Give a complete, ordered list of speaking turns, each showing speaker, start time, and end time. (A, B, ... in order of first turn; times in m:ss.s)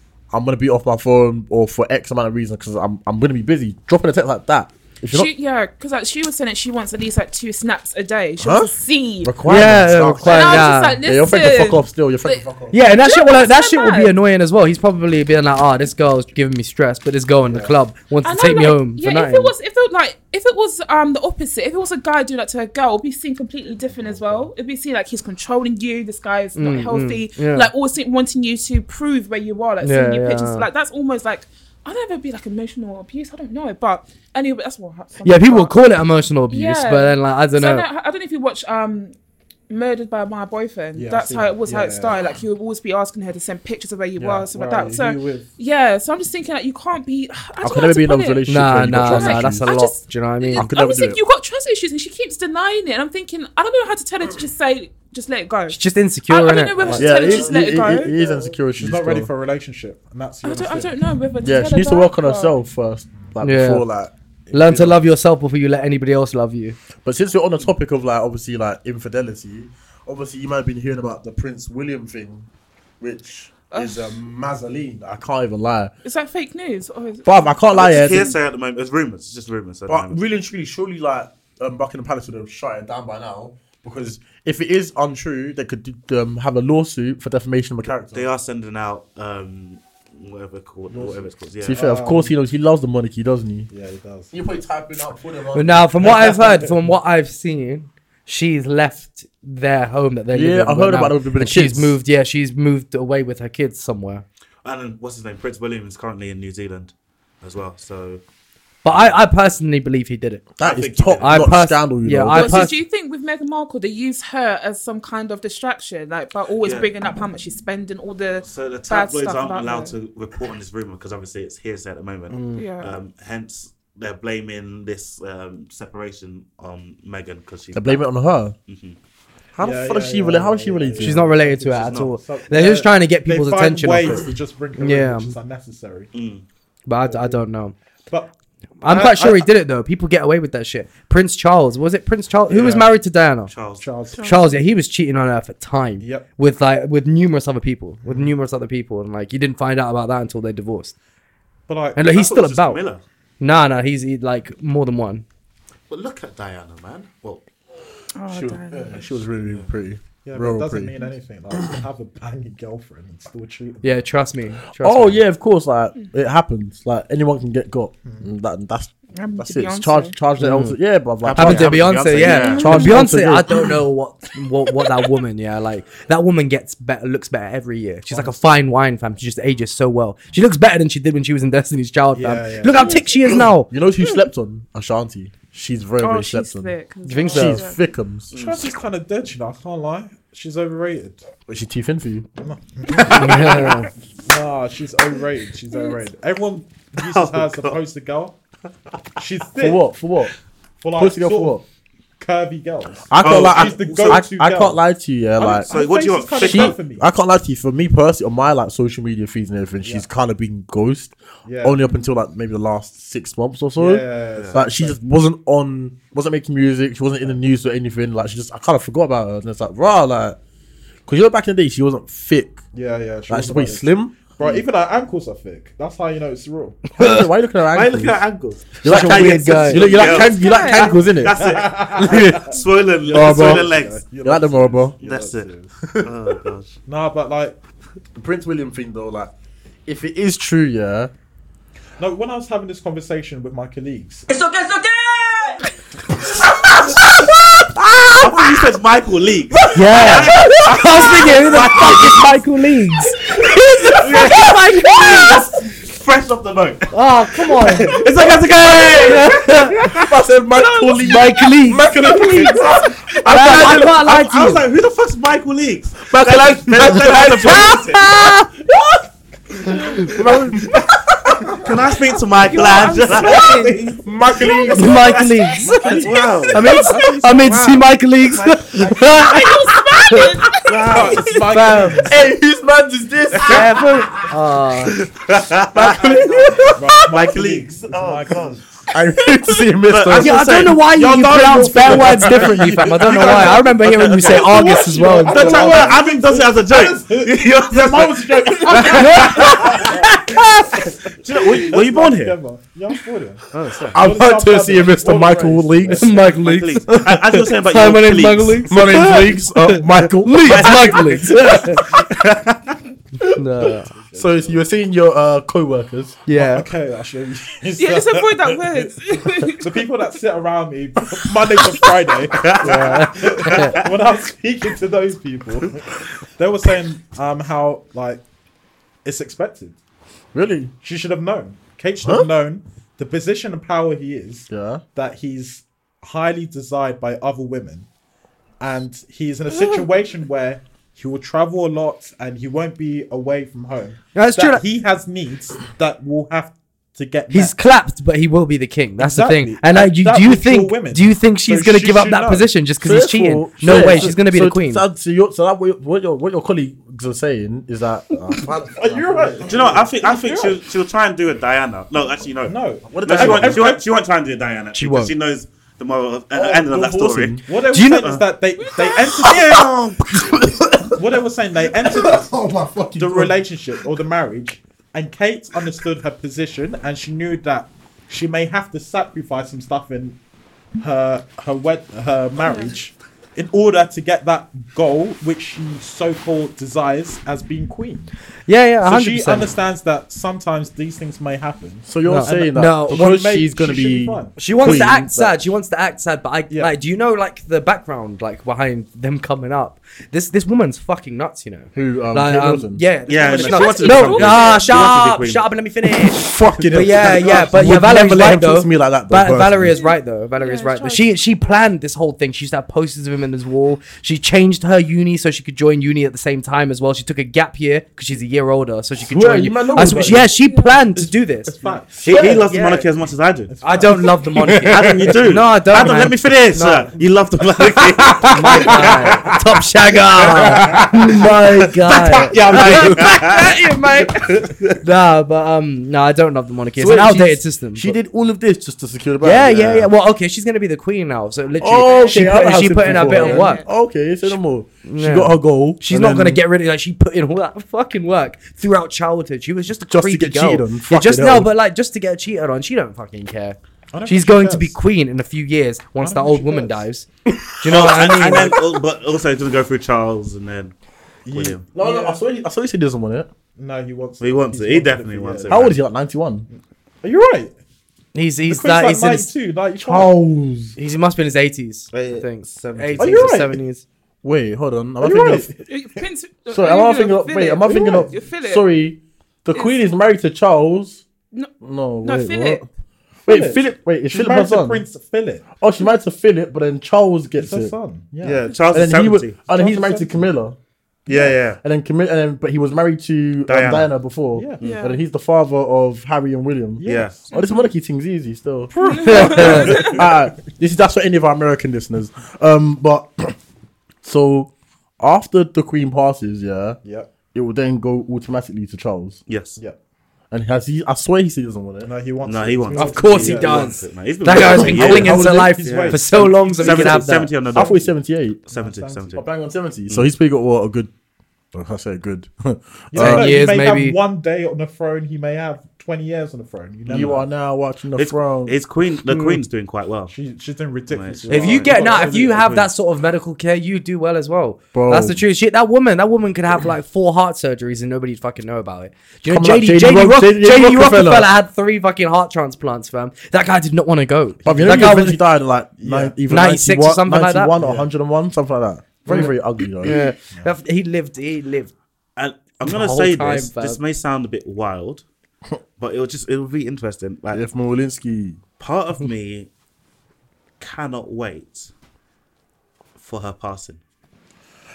0:00.3-0:05.3 A
0:05.1-0:09.4 B
0:08.4-0:08.7 A
0:09.2-0:12.8 A
0:09.4-0:11.0 C
0:10.2-0:14.1 B
0:12.7-0:19.5 C
0:18.2-0:35.7 B
0:23.9-0:24.5 D
0:26.6-0:27.7 C
0:29.8-0:30.7 C
0:35.2-0:37.8 C
0:36.5-0:39.1 B
0:39.7-0:48.4 B
0:40.9-0:42.2 D
0:44.2-0:45.5 D
0:47.6-0:49.7 A
0:48.5-0:50.7 C
0:48.9-0:58.1 B
0:50.5-0:51.2 A
0:55.7-0:57.1 C
0:56.9-0:59.3 A
0:57.1-0:57.4 D
0:58.1-1:00.9 D
1:00.4-1:02.5 B
1:01.4-1:05.0 A
1:03.4-1:03.8 C
1:04.5-1:06.8 C
1:07.0-1:12.5 A
1:13.0-1:15.9 A
1:13.7-1:14.2 B
1:16.0-1:18.2 B
1:17.2-1:18.3 A
1:17.7-1:20.2 E
1:19.9-1:28.3 A
1:28.1-1:31.8 E
1:30.9-1:33.7 A
1:31.7-1:32.4 D
1:33.7-1:34.3 D
1:34.3-1:36.2 A
1:35.5-1:44.2 C
1:36.1-1:36.7 D
1:40.3-1:42.0 A
1:44.6-1:48.2 E
1:48.8-1:50.4 C
1:48.8-1:49.2 E
1:50.6-1:52.7 A
1:50.6-1:51.6 E
1:51.2-1:52.8 C
1:52.3-1:59.9 B
1:56.6-1:56.9 E
1:58.4-2:08.0 E
2:02.3-2:02.6 C
2:02.5-2:02.9 B
2:07.7-2:08.5 A
2:08.7-2:09.0 E
2:09.5-2:11.2 A
2:09.6-2:16.1 D
2:11.0-2:15.3 C
2:11.8-2:12.1 E
2:14.0-2:14.3 A
2:16.1-2:16.4 E
2:16.8-2:17.7 C
2:17.0-2:17.4 D
2:18.8-2:23.5 C
2:18.8-2:19.5 D
2:22.5-2:22.9 E
2:22.5-2:22.9 D
2:23.5-2:23.8 E
2:23.8-2:24.5 D
2:24.1-2:24.4 B
2:24.2-2:30.9 C
2:26.0-2:26.2 D
2:28.0-2:28.3 D
2:31.7-2:32.1 D
2:32.0-2:32.8 C
2:32.0-2:33.0 E
2:33.4-2:35.2 C
2:35.9-2:37.4 E
2:38.1-2:39.0 B
2:38.3-2:40.9 A
2:40.2-2:44.0 D
2:41.5-2:41.8 A
2:43.8-2:45.2 C
2:44.8-2:53.8 A
2:49.1-2:50.1 B
2:50.4-2:50.8 C
2:51.2-2:52.8 E
2:51.3-3:03.7 C
2:52.2-2:53.0 B
2:58.1-2:58.4 D
3:02.1-3:03.0 D
3:02.7-3:03.1 B
3:03.2-3:06.7 A
3:06.0-3:07.8 B
3:07.0-3:07.6 C
3:07.3-3:08.3 A
3:08.3-3:08.7 E
3:08.3-3:11.2 D
3:11.5-3:12.3 A
3:12.4-3:18.4 D
3:12.9-3:13.8 E
3:13.0-3:13.9 C
3:15.7-3:16.0 B
3:17.0-3:17.8 E
3:19.2-3:19.8 D
3:19.6-3:20.3 A
3:20.8-3:21.6 D
3:21.0-3:21.6 A
3:22.2-3:24.8 D
3:23.1-3:25.7 A
3:23.2-3:24.3 E
3:25.4-3:27.0 D
3:25.6-3:26.8 E
3:26.3-3:40.4 A
3:31.4-3:32.0 D
3:33.8-3:35.0 D
3:41.1-3:42.6 A
3:42.7-3:46.8 D
3:43.3-3:44.6 A
3:47.0-3:47.3 C
3:47.0-3:48.2 A
3:47.7-3:54.0 E
3:48.8-3:51.4 A
3:48.8-3:49.9 C
3:49.8-3:51.0 B
3:51.3-3:55.7 D
3:52.0-3:52.5 A
3:53.1-3:54.9 A
3:55.0-3:55.5 E
3:55.8-3:56.3 A
3:56.0-3:56.8 E
3:56.8-3:57.6 D
3:58.2-3:59.3 A
3:59.8-4:01.1 A
4:02.0-4:04.3 D
4:06.8-4:08.4 A
4:08.2-4:12.4 E
4:09.7-4:15.4 C
4:09.9-4:12.3 A
4:13.8-4:16.9 E
4:14.2-4:14.4 A
4:16.9-4:18.0 C
4:17.6-4:20.1 E
4:18.9-4:19.9 C
4:19.8-4:24.1 A
4:20.9-4:22.6 C
4:23.2-4:28.2 E
4:23.2-4:24.7 C
4:26.1-4:27.8 A
4:26.8-4:27.7 D
4:27.2-4:28.5 C
4:29.6-4:30.3 D
4:29.8-4:31.6 A
4:31.5-4:36.9 E
4:32.5-4:33.9 B
4:32.5-4:37.8 D
4:33.1-4:33.4 A
4:34.0-4:36.6 A
4:34.7-4:40.4 C
4:39.0-4:41.2 B
4:40.6-4:41.2 A
4:40.7-4:42.3 D
4:41.2-4:42.2 C
4:42.0-4:43.8 A
4:43.4-4:43.6 D
4:43.4-4:45.0 C
4:44.8-4:48.6 E
4:45.7-4:47.2 A
4:45.8-4:48.6 D
4:48.9-4:50.4 A
4:49.8-4:50.8 E
4:50.1-4:55.7 C
4:50.8-5:00.4 D
4:51.9-4:55.9 A
4:52.9-5:00.4 E
4:58.7-5:00.6 C
4:58.8-4:59.5 A
5:01.2-5:02.4 E
5:01.3-5:06.2 D
5:03.5-5:04.1 E
5:03.9-5:06.2 A
5:06.0-5:11.9 C
5:06.2-5:09.1 E
5:06.9-5:07.2 A
5:08.7-5:11.6 A
5:10.4-5:12.7 E
5:13.3-5:13.9 C
5:13.6-5:14.6 D
5:13.6-5:16.2 A
5:16.3-5:16.7 C
5:16.3-5:18.8 D
5:17.8-5:19.8 B
5:19.6-5:28.2 D
5:22.3-5:24.0 E
5:22.6-5:23.8 C
5:29.0-5:29.8 D
5:30.3-5:30.7 A
5:30.8-5:37.9 D
5:32.0-5:32.3 A
5:34.5-5:34.8 A
5:38.6-5:47.5 D
5:44.1-5:44.6 C
5:47.3-5:54.8 C
5:49.0-5:52.5 D
5:52.8-5:59.6 A
5:53.6-5:54.1 D
5:58.7-6:00.6 D
5:59.4-6:08.2 E
6:02.4-6:03.8 D
6:02.9-6:03.7 A
6:04.7-6:05.1 C
6:06.3-6:07.4 A
6:07.4-6:09.8 D
6:07.7-6:08.1 C
6:09.2-6:11.1 A
6:09.5-6:09.9 E
6:10.9-6:12.3 D
6:11.7-6:13.4 A
6:13.0-6:20.2 D
6:20.8-6:28.1 D
6:22.4-6:22.7 B
6:28.5-6:29.5 C
6:28.8-6:31.9 D
6:31.8-6:35.4 A
6:32.0-6:33.2 C
6:32.8-6:34.8 D
6:34.4-7:02.8 C
6:41.7-6:42.8 A
6:43.1-6:45.5 E
6:43.2-6:44.9 B
6:46.0-6:49.8 A
6:47.0-6:47.5 D
6:49.7-6:51.1 B
6:59.0-7:00.3 A
7:00.4-7:00.8 B
7:01.0-7:02.5 D
7:02.0-7:03.5 E
7:03.5-7:04.3 D
7:03.6-7:06.9 C
7:04.4-7:05.2 A
7:04.7-7:09.1 E
7:07.8-7:09.4 A
7:08.2-7:18.0 C
7:10.3-7:11.4 A
7:11.9-7:13.6 E
7:11.9-7:13.1 A
7:14.3-7:14.8 E
7:16.8-7:19.9 A
7:19.2-7:23.6 C
7:21.6-7:26.4 A
7:21.8-7:23.7 B
7:24.8-7:37.1 C
7:29.9-7:31.5 A
7:33.9-7:34.8 D
7:36.0-7:36.8 D
7:37.2-7:38.6 A
7:37.6-7:38.6 C
7:37.6-7:40.7 E
7:41.2-7:42.2 D
7:41.3-7:41.7 E
7:41.7-7:43.3 A
7:43.6-7:45.7 D
7:44.2-7:45.8 E
7:45.5-7:46.5 A
7:46.5-7:47.5 D
7:48.1-7:49.3 C
7:48.5-7:50.1 D
7:49.8-7:50.8 A
7:50.8-7:53.8 C
7:51.9-7:53.3 E
7:53.0-7:53.6 D
7:54.2-7:55.5 A
7:55.0-7:55.6 D
7:55.6-7:58.7 B
7:56.5-8:01.0 A
7:57.7-7:58.1 D
7:59.5-7:59.8 B
8:01.6-8:02.6 A
8:02.0-8:02.6 B
8:03.2-8:04.8 A
8:03.3-8:05.4 D
8:05.6-8:10.6 A
8:07.4-8:08.4 D
8:08.2-8:09.4 E
8:09.5-8:10.2 D
8:11.1-8:11.6 E
8:11.1-8:23.4 A
8:13.5-8:13.9 E
8:14.3-8:14.6 D
8:14.6-8:15.0 B
8:16.8-8:17.3 D
8:16.8-8:17.2 E
8:17.3-8:17.7 B
8:18.7-8:20.0 D
8:18.8-8:20.0 B
8:19.0-8:19.7 C
8:24.0-8:26.8 A
8:26.8-8:27.1 D
8:27.3-8:29.2 A
8:29.3-8:29.6 E
8:30.3-8:31.9 A
8:31.8-8:33.8 D
8:32.2-8:37.9 E
8:32.7-8:37.3 C
8:34.4-8:35.6 A
8:34.4-8:37.8 D
8:37.5-8:38.4 A
8:38.5-8:39.2 E
8:38.5-8:39.2 D
8:39.1-8:40.9 A
8:41.5-8:43.3 A
8:42.9-8:47.2 D
8:43.0-8:44.0 C
8:46.8-8:47.2 E
8:46.9-8:49.4 A
8:47.9-8:50.1 E
8:50.1-8:52.4 D
8:50.9-8:52.7 E
8:51.3-9:05.2 C
8:54.7-8:55.2 A
8:59.2-9:01.3 A
9:04.4-9:10.0 A
9:04.4-9:05.0 D
9:05.8-9:06.2 D
9:06.3-9:07.5 C
9:07.6-9:07.9 D
9:09.0-9:11.7 C
9:09.9-9:10.5 D
9:12.2-9:15.0 E
9:12.6-9:13.8 C
9:15.8-9:17.4 E
9:17.3-9:18.4 A
9:18.6-9:19.5 E
9:20.6-9:21.7 E
9:23.0-9:23.8 E